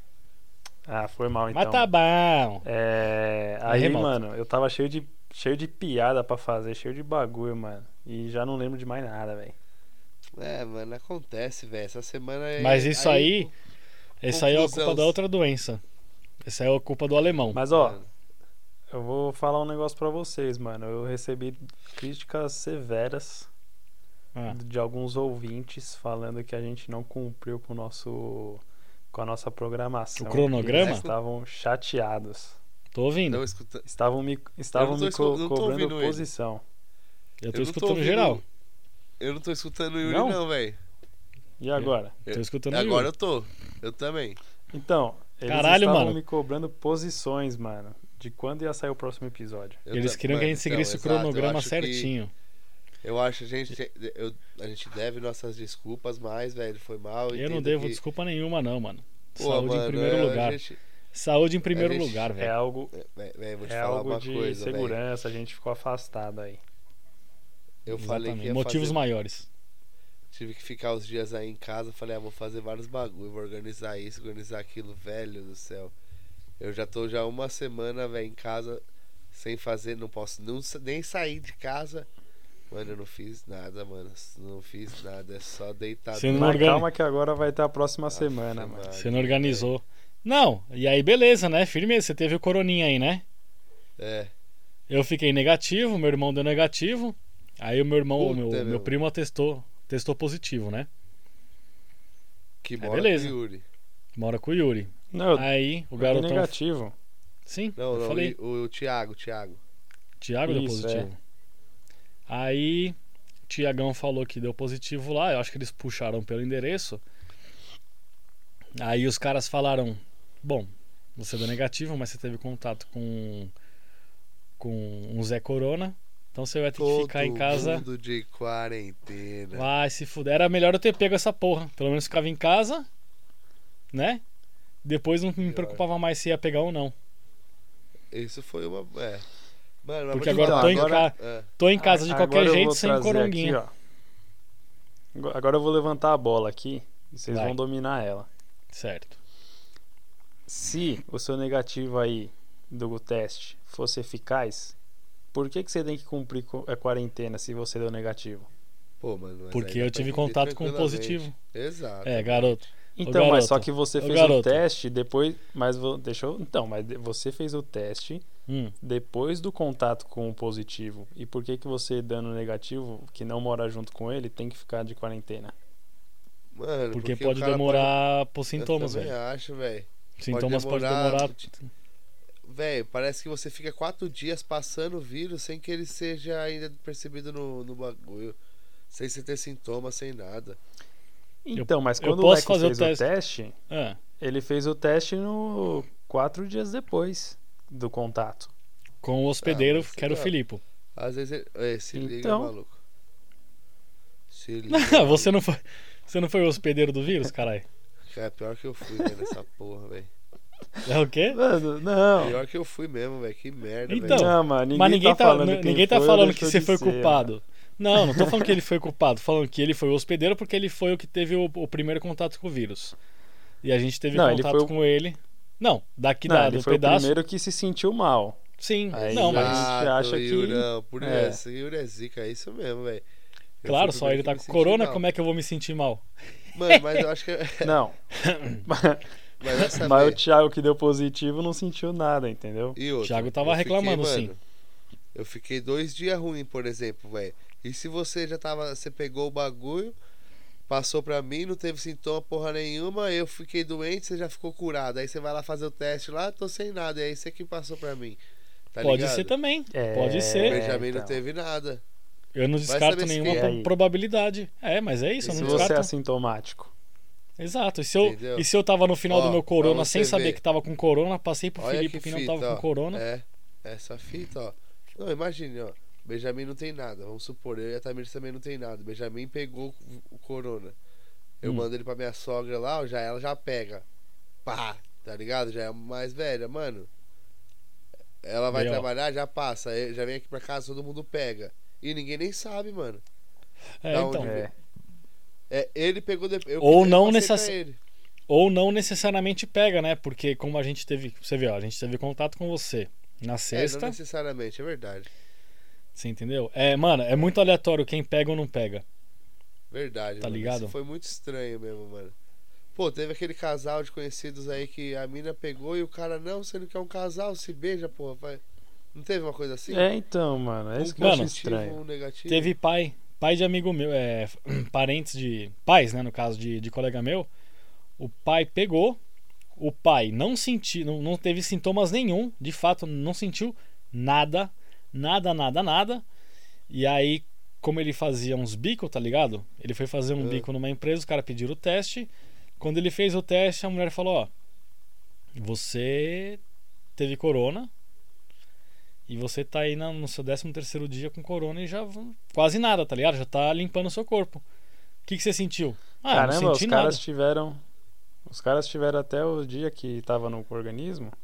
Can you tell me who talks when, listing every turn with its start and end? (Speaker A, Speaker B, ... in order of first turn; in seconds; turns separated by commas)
Speaker A: 0.8-1.9, Speaker B: 1.5-2.6, Speaker A: 2.6-9.6, Speaker B: 3.6-4.1, Speaker C: 10.3-13.5, Speaker B: 12.6-13.5, Speaker B: 14.2-15.8, Speaker C: 14.3-15.1, Speaker B: 16.4-17.6, Speaker A: 17.5-18.0, Speaker C: 17.7-18.1, Speaker A: 18.9-23.5, Speaker A: 24.5-32.6, Speaker B: 30.2-31.0, Speaker C: 30.7-31.1, Speaker B: 32.9-33.4, Speaker C: 33.3-33.8, Speaker A: 33.8-36.6, Speaker C: 34.7-36.3, Speaker B: 37.4-38.4, Speaker C: 37.5-38.4, Speaker C: 39.2-40.8, Speaker A: 40.0-40.4, Speaker A: 41.6-42.1, Speaker B: 41.8-43.1, Speaker C: 42.3-44.4, Speaker A: 44.7-49.8, Speaker B: 45.5-46.2, Speaker C: 49.9-52.1, Speaker B: 49.9-52.3, Speaker C: 53.0-58.0, Speaker B: 57.3-60.6, Speaker C: 59.4-60.8, Speaker B: 61.1-62.5, Speaker C: 61.7-62.3, Speaker A: 62.4-62.9, Speaker C: 62.9-65.0, Speaker A: 63.6-66.6, Speaker C: 67.8-69.0, Speaker B: 67.9-69.5, Speaker C: 70.3-75.9, Speaker C: 76.6-82.1, Speaker C: 82.7-86.8, Speaker B: 86.1-86.9, Speaker A: 86.3-88.9, Speaker C: 88.1-89.7, Speaker B: 88.9-93.2, Speaker C: 94.0-94.3, Speaker B: 94.9-100.9, Speaker C: 98.2-98.9, Speaker C: 102.6-103.6, Speaker B: 102.8-103.3, Speaker B: 104.2-106.5, Speaker A: 105.1-106.9, Speaker B: 107.5-108.3, Speaker C: 107.8-109.6, Speaker B: 110.2-111.2, Speaker A: 110.5-111.1, Speaker B: 112.3-113.0, Speaker B: 113.5-117.0, Speaker B: 118.8-123.5, Speaker B: 124.6-127.9, Speaker C: 126.7-129.7, Speaker B: 129.5-132.8, Speaker B: 133.9-134.2, Speaker B: 134.8-136.9, Speaker C: 135.4-135.8, Speaker C: 138.1-139.2, Speaker C: 139.8-141.5, Speaker B: 140.1-143.6, Speaker A: 140.2-141.1, Speaker A: 141.8-143.7, Speaker A: 145.1-148.3, Speaker B: 147.3-147.6, Speaker B: 148.7-149.2, Speaker A: 150.5-154.7, Speaker A: 155.3-158.5, Speaker C: 159.0-162.7, Speaker B: 159.5-161.3, Speaker B: 162.0-164.6, Speaker A: 163.0-168.2, Speaker B: 168.5-168.7, Speaker A: 168.8-175.5, Speaker C: 176.5-177.9, Speaker B: 176.9-179.1, Speaker C: 178.6-181.5, Speaker B: 180.2-181.5, Speaker C: 182.4-188.4, Speaker C: 188.9-190.6, Speaker A: 191.4-193.6, Speaker B: 191.6-193.1, Speaker B: 193.7-194.0, Speaker A: 194.2-198.5, Speaker B: 199.0-200.6, Speaker C: 199.4-200.3, Speaker C: 200.9-202.8, Speaker A: 201.9-202.5, Speaker C: 204.3-205.3, Speaker B: 204.7-207.7, Speaker C: 208.1-210.1, Speaker B: 210.8-211.4, Speaker A: 211.3-212.4, Speaker C: 212.2-214.3, Speaker B: 213.9-222.9, Speaker A: 214.1-217.3, Speaker A: 217.9-218.5, Speaker B: 223.6-227.2, Speaker A: 224.1-224.7, Speaker A: 226.2-228.4, Speaker B: 228.6-229.7, Speaker A: 228.9-231.4, Speaker C: 228.9-233.0, Speaker C: 233.6-235.0, Speaker B: 233.7-236.0, Speaker C: 236.5-237.8, Speaker B: 236.7-237.0, Speaker A: 237.6-238.0, Speaker B: 238.2-238.6, Speaker A: 238.7-239.0, Speaker C: 239.4-240.2, Speaker A: 239.6-242.8, Speaker C: 242.8-244.4, Speaker B: 243.0-244.3, Speaker C: 245.1-249.9, Speaker C: 250.7-258.2, Speaker C: 258.7-259.3, Speaker B: 258.8-260.6, Speaker A: 259.7-261.2, Speaker C: 260.4-261.8, Speaker B: 262.3-265.9, Speaker C: 262.7-263.5, Speaker A: 263.2-263.7, Speaker C: 265.2-265.7, Speaker A: 265.2-266.7, Speaker B: 267.4-273.0, Speaker C: 268.0-268.4, Speaker C: 269.1-270.4, Speaker C: 271.6-280.8, Speaker C: 281.4-283.9, Speaker C: 284.4-286.9, Speaker C: 288.2-293.0, Speaker B: 288.5-288.9, Speaker B: 293.8-294.3, Speaker C: 293.9-294.5, Speaker A: 294.2-294.5, Speaker C: 295.5-297.8, Speaker B: 296.6-297.5, Speaker B: 298.3-304.0, Speaker C: 303.5-305.1, Speaker B: 305.9-308.8, Speaker C: 309.7-312.1, Speaker B: 310.2-310.7, Speaker C: 312.7-318.4, Speaker C: 318.9-319.9, Speaker A: 319.7-321.8, Speaker C: 320.8-322.5, Speaker B: 321.0-321.3, Speaker B: 322.3-327.3, Speaker B: 328.0-329.0, Speaker B: 329.6-336.0, Speaker B: 336.7-342.1, Speaker C: 340.2-340.5, Speaker B: 342.6-344.3, Speaker B: 345.4-346.4, Speaker B: 347.0-347.7, Speaker B: 349.1-354.4, Speaker B: 355.1-357.0, Speaker A: 356.1-357.6, Speaker A: 358.2-361.1